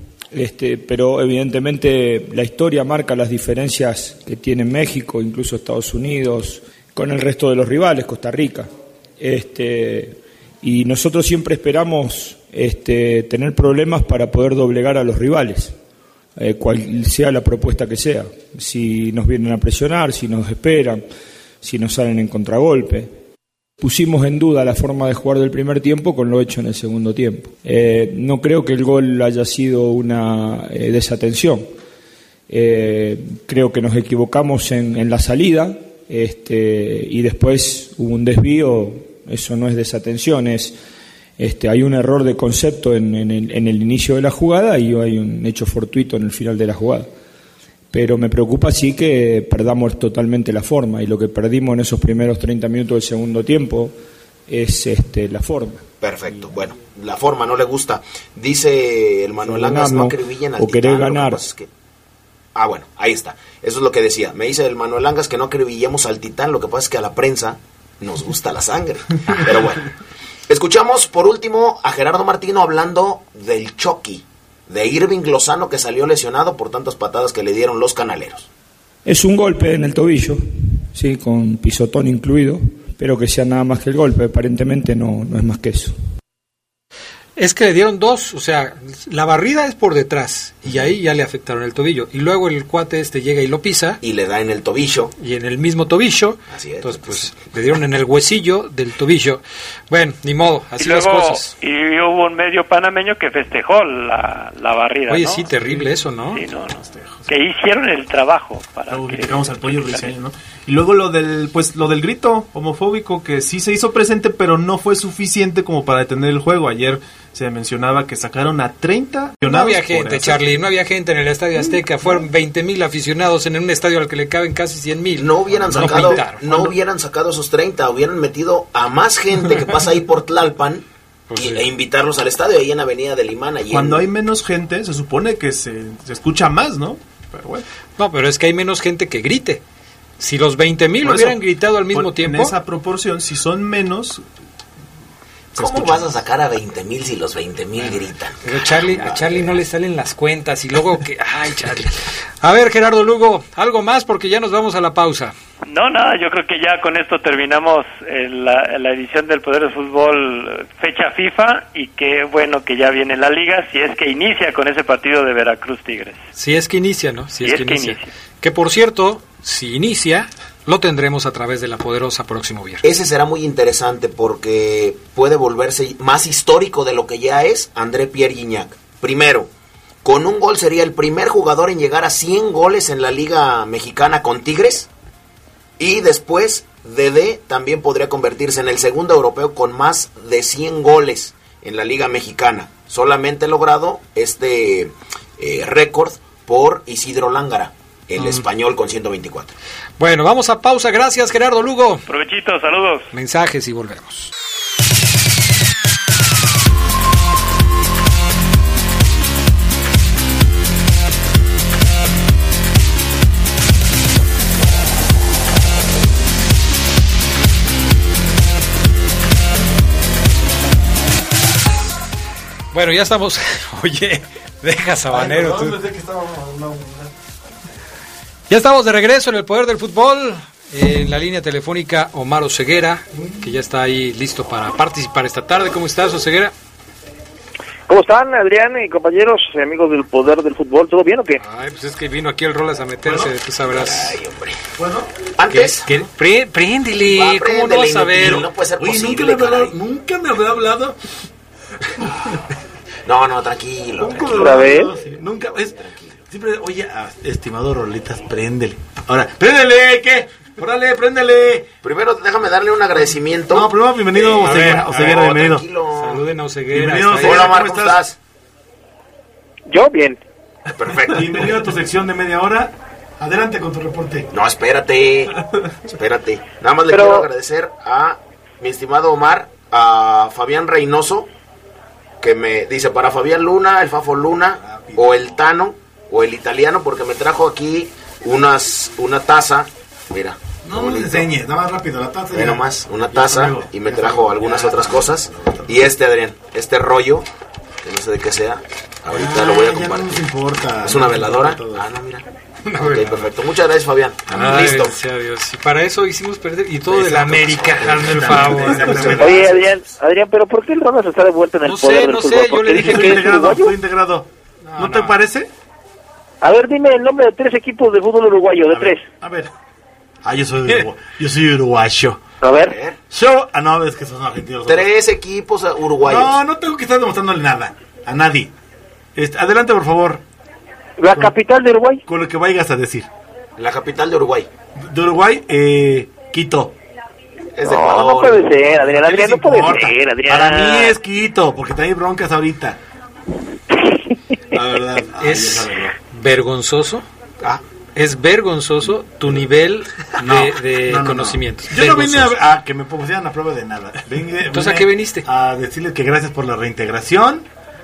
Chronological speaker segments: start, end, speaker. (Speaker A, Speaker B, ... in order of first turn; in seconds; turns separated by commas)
Speaker A: 0.3-15.8, Speaker A: 16.4-21.0, Speaker A: 21.6-23.2, Speaker A: 23.8-31.7, Speaker A: 32.5-40.8, Speaker A: 41.4-47.1, Speaker A: 47.9-54.0, Speaker A: 54.5-55.8, Speaker B: 56.0-61.7, Speaker A: 59.4-61.4, Speaker B: 62.5-69.9, Speaker B: 70.5-78.5, Speaker A: 79.1-86.0, Speaker C: 87.4-94.0, Speaker B: 94.0-95.1, Speaker C: 95.2-101.5, Speaker B: 96.5-97.3, Speaker D: 100.8-106.8, Speaker C: 105.1-106.4, Speaker E: 106.7-107.3, Speaker D: 107.3-110.1, Speaker E: 108.9-120.4, Speaker C: 119.5-126.7, Speaker B: 125.2-134.1, Speaker C: 131.3-131.6, Speaker E: 133.7-137.7, Speaker C: 138.0-139.6, Speaker C: 140.2-142.6, Speaker E: 141.0-144.2, Speaker B: 145.5-149.6, Speaker E: 145.6-146.1, Speaker C: 148.4-155.3, Speaker D: 155.7-166.2, Speaker C: 166.4-172.8, Speaker D: 167.4-168.1, Speaker B: 172.8-179.5, Speaker B: 180.0-184.9, Speaker B: 185.8-199.6, Speaker C: 198.2-198.4, Speaker C: 200.0-202.0, Speaker D: 202.1-203.1, Speaker C: 203.1-204.3, Speaker C: 222.7-225.8, Speaker F: 225.1-227.1, Speaker C: 228.5-236.5, Speaker F: 233.1-233.5, Speaker G: 237.9-241.4, Speaker C: 241.4-244.2, Speaker F: 243.0-243.3, Speaker B: 243.7-244.6, Speaker F: 244.8-245.1, Speaker B: 245.3-246.0, Speaker C: 245.5-248.5, Speaker B: 247.0-249.8, Speaker F: 248.8-251.0, Speaker B: 253.1-254.7, Speaker F: 254.0-261.7, Speaker G: 254.3-254.9, Speaker B: 255.8-256.2, Speaker B: 261.8-266.2, Speaker F: 263.5-265.6, Speaker C: 264.4-264.9, Speaker C: 265.9-267.5, Speaker F: 266.7-268.0, Speaker B: 267.2-268.2, Speaker G: 269.7-270.2, Speaker B: 270.7-271.5, Speaker F: 271.1-274.3, Speaker B: 274.3-275.4, Speaker B: 275.9-281.3, Speaker G: 276.9-277.3, Speaker B: 282.2-291.3, Speaker F: 284.6-285.3, Speaker F: 290.6-295.7, Speaker B: 292.3-297.3, Speaker B: 297.8-300.3, Speaker F: 299.1-301.9, Speaker B: 300.8-302.2, Speaker C: 302.7-303.2, Speaker B: 302.8-305.0, Speaker C: 304.3-309.2, Speaker F: 306.9-309.7, Speaker G: 309.1-313.8, Speaker C: 311.6-313.4, Speaker F: 312.7-315.5, Speaker C: 314.6-315.2, Speaker G: 316.4-319.1, Speaker F: 318.7-319.5, Speaker F: 320.2-322.2, Speaker G: 322.4-322.8, Speaker B: 322.5-323.0, Speaker F: 323.1-324.9, Speaker B: 324.6-326.4, Speaker F: 326.0-328.5, Speaker F: 329.2-330.2, Speaker G: 331.0-332.0, Speaker F: 331.1-331.4, Speaker F: 332.1-333.1, Speaker B: 333.6-334.5, Speaker F: 334.8-336.8, Speaker B: 337.6-338.5, Speaker G: 337.6-341.0, Speaker F: 338.7-342.8, Speaker G: 343.7-344.1, Speaker F: 344.5-345.9, Speaker C: 345.2-347.1, Speaker C: 348.0-352.4, Speaker F: 350.1-357.5, Speaker C: 354.5-355.2